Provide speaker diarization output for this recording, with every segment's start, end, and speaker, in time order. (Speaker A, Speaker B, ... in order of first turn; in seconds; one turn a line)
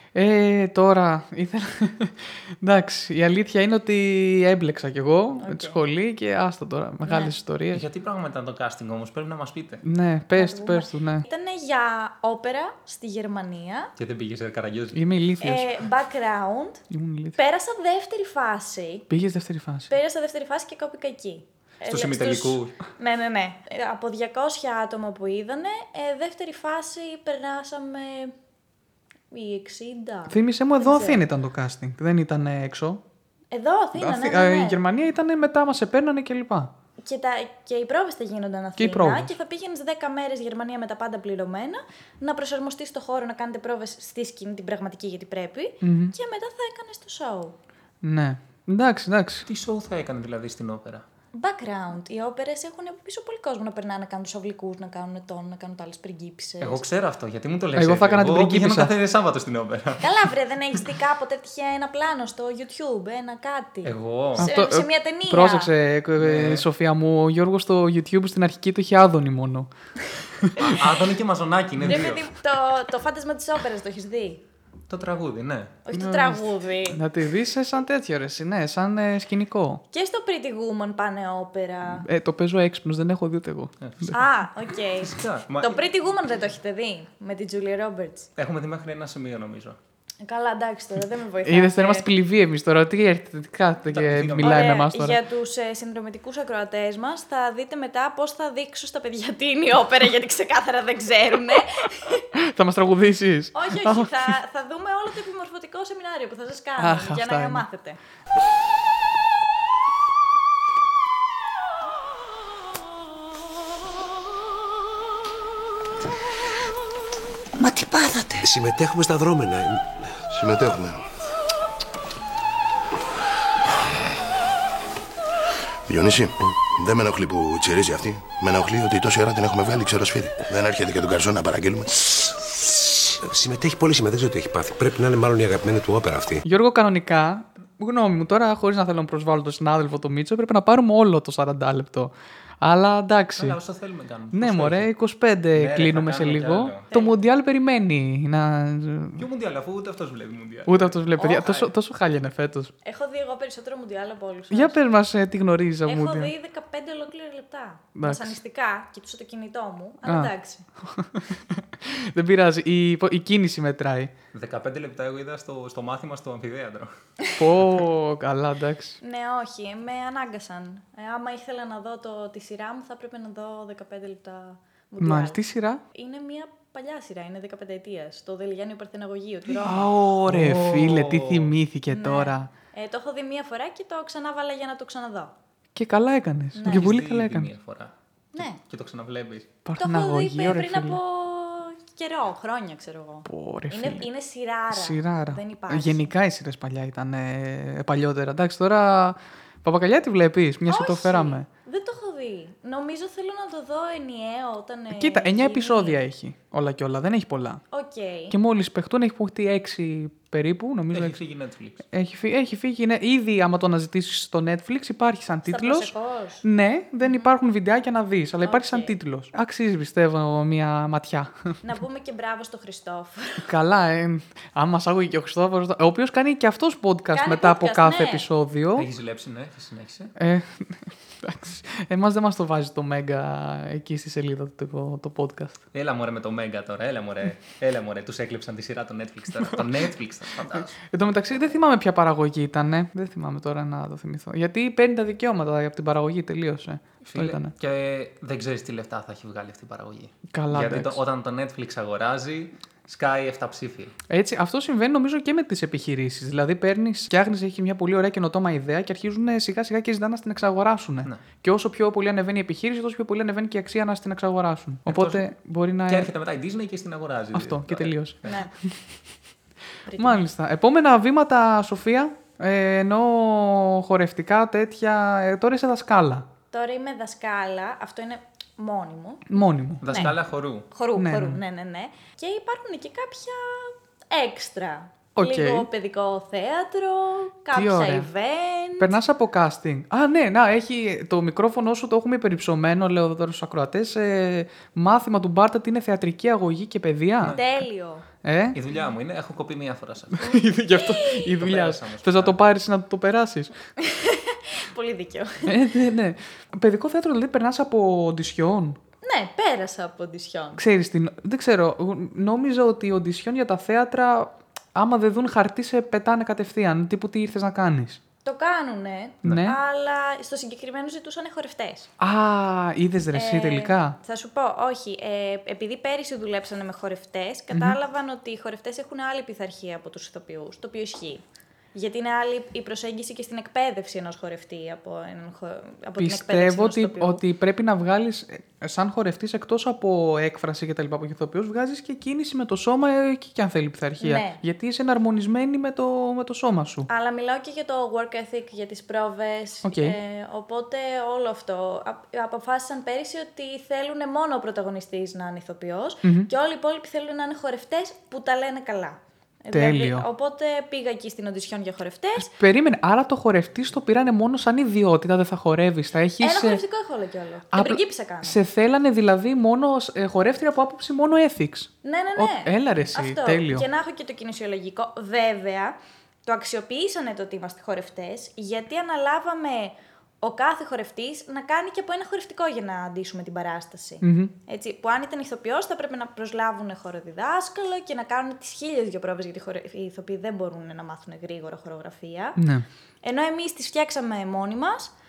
Speaker A: 0.1-7.8
Speaker B: 5.4-5.8
Speaker B: 7.0-7.3
Speaker C: 7.7-9.8
Speaker A: 9.8-11.2
Speaker B: 10.3-13.9
Speaker C: 14.0-15.0
Speaker A: 14.9-15.8
Speaker B: 15.4-16.8
Speaker A: 16.9-17.4
Speaker B: 17.4-19.1
Speaker A: 19.1-19.9
Speaker B: 19.9-28.3
Speaker C: 21.9-22.8
Speaker B: 29.3-31.2
Speaker A: 30.3-33.0
Speaker B: 33.5-34.8
Speaker A: 34.0-36.7
Speaker B: 37.0-47.5
Speaker A: 38.8-39.3
Speaker A: 45.8-46.1
Speaker A: 48.0-49.5
Speaker C: 49.5-51.0
Speaker B: 51.3-56.8
Speaker C: 56.6-60.3
Speaker A: 57.8-58.9
Speaker B: 60.0-65.7
Speaker C: 63.8-64.5
Speaker A: 64.4-69.7
Speaker C: 66.2-66.7
Speaker A: 70.4-70.7
Speaker C: 70.6-72.3
Speaker B: 71.8-74.4
Speaker C: 74.9-75.8
Speaker B: 75.8-77.0
Speaker A: 75.9-79.8
Speaker B: 79.9-82.1
Speaker A: 82.0-84.1
Speaker C: 83.8-84.2
Speaker B: 84.1-88.3
Speaker C: 85.0-85.8
Speaker C: 88.4-89.8
Speaker B: 90.2-92.1
Speaker A: 91.5-95.2
Speaker C: 93.9-94.8
Speaker B: 94.4-102.3
Speaker A: 102.3-104.3
Speaker B: 103.5-108.0
Speaker A: 106.8-107.7
Speaker D: 117.6-120.2
Speaker E: 120.3-121.0
Speaker E: 125.9-132.1
Speaker D: 132.1-136.4
Speaker A: 136.4-143.6
Speaker C: 143.4-144.9
Speaker A: 144.3-149.2
Speaker C: 145.5-146.9
Speaker B: 146.9-147.2
Speaker C: 149.2-151.7
Speaker A: 150.7-152.7
Speaker B: 151.2-151.5
Speaker B: 152.8-154.8
Speaker A: 154.5-156.3
Speaker B: 155.9-160.7
Speaker A: 157.9-158.4
Speaker A: 160.1-160.3
Speaker A: 160.8-164.1
Speaker C: 164.3-166.9
Speaker A: 167.4-169.0
Speaker B: 169.0-175.4
Speaker A: 175.0-175.8
Speaker B: 175.9-179.9
Speaker A: 179.6-182.5
Speaker C: 180.3-181.5
Speaker B: 181.9-185.3
Speaker A: 185.8-187.5
Speaker B: 186.6-186.9
Speaker C: 186.6-189.5
Speaker B: 188.3-188.6
Speaker A: 189.7-191.0
Speaker B: 189.8-196.1
Speaker A: 193.3-194.1
Speaker A: 194.7-201.5
Speaker B: 200.7-206.0
Speaker A: 204.9-207.6
Speaker B: 207.7-208.3
Speaker A: 208.3-211.2
Speaker C: 210.9-211.8
Speaker A: 211.9-215.9
Speaker B: 215.5-216.4
Speaker A: 216.4-221.5
Speaker B: 218.4-218.9
Speaker B: 221.6-223.5
Speaker A: 223.5-228.9
Speaker B: 227.1-228.3
Speaker C: 228.8-230.1
Speaker A: 230.2-235.6
Speaker C: 235.7-240.8
Speaker A: 239.4-239.7
Speaker A: 240.6-247.5
Speaker C: 247.0-253.9
Speaker A: 250.3-251.0
Speaker A: 254.1-266.1
Speaker C: 264.9-265.2
Speaker C: 265.9-268.4
Speaker A: 267.3-268.2
Speaker B: 268.2-268.5
Speaker B: 269.9-270.2
Speaker A: 270.0-276.3
Speaker B: 276.5-279.4
Speaker A: 279.3-280.1
Speaker C: 279.8-280.7
Speaker B: 280.7-289.0
Speaker A: 281.0-281.4
Speaker A: 285.2-285.7
Speaker A: 287.5-288.1
Speaker A: 288.8-297.4
Speaker B: 297.3-298.1
Speaker A: 298.2-298.6
Speaker C: 298.5-300.3
Speaker A: 300.2-303.5
Speaker B: 300.7-301.3
Speaker C: 301.3-302.4
Speaker B: 303.8-305.6
Speaker A: 305.5-308.8
Speaker B: 309.0-310.6
Speaker A: 310.6-318.0
Speaker B: 318.2-321.9
Speaker A: 319.2-319.6
Speaker A: 322.0-324.0
Speaker B: 323.1-331.2
Speaker A: 327.5-327.8
Speaker B: 331.7-337.2
Speaker A: 336.0-346.9
Speaker B: 344.0-344.4
Speaker B: 346.9-362.3
Speaker A: 349.6-350.0
Speaker A: 356.0-356.3
Speaker A: 359.5-360.1
Speaker A: 362.2-366.6
Speaker B: 366.2-368.4
Speaker A: 367.5-373.7
Speaker B: 371.8-392.4
Speaker A: 384.0-384.3
Speaker A: 392.4-392.6
Speaker B: 393.0-394.9